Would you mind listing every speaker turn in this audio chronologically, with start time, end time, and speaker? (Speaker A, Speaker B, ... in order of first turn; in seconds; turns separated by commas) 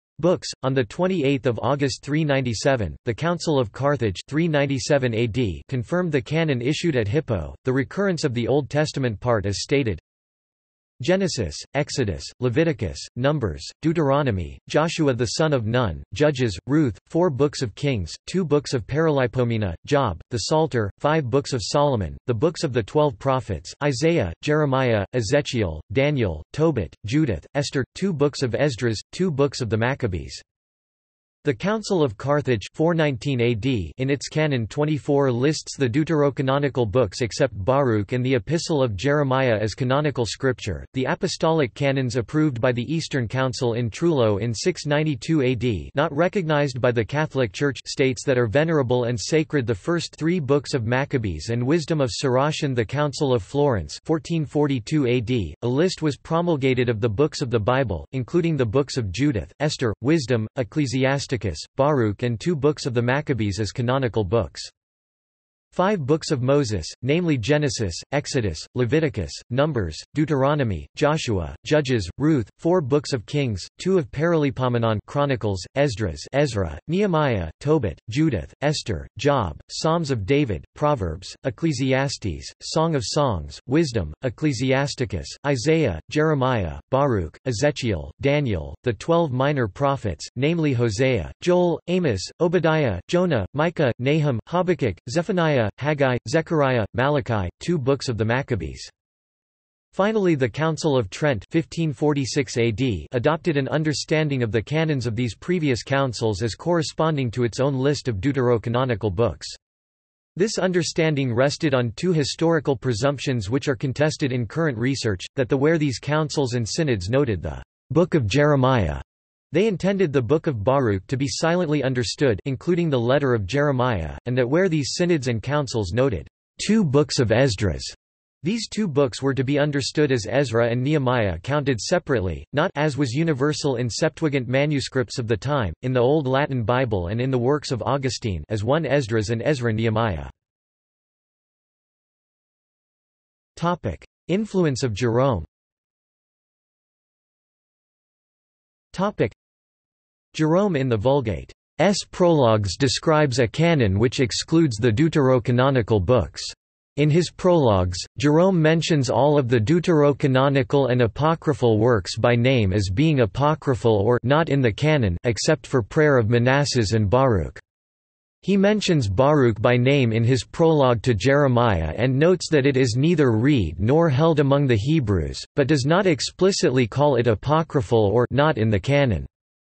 Speaker A: 0.2-10.0, Speaker A: 11.0-30.4, Speaker A: 31.4-64.7, Speaker A: 65.7-98.9, Speaker A: 99.9-109.6, Speaker A: 110.3-140.3, Speaker A: 143.6-145.5, Speaker A: 148.9-149.4, Speaker A: 150.3-167.6, Speaker A: 168.4-179.3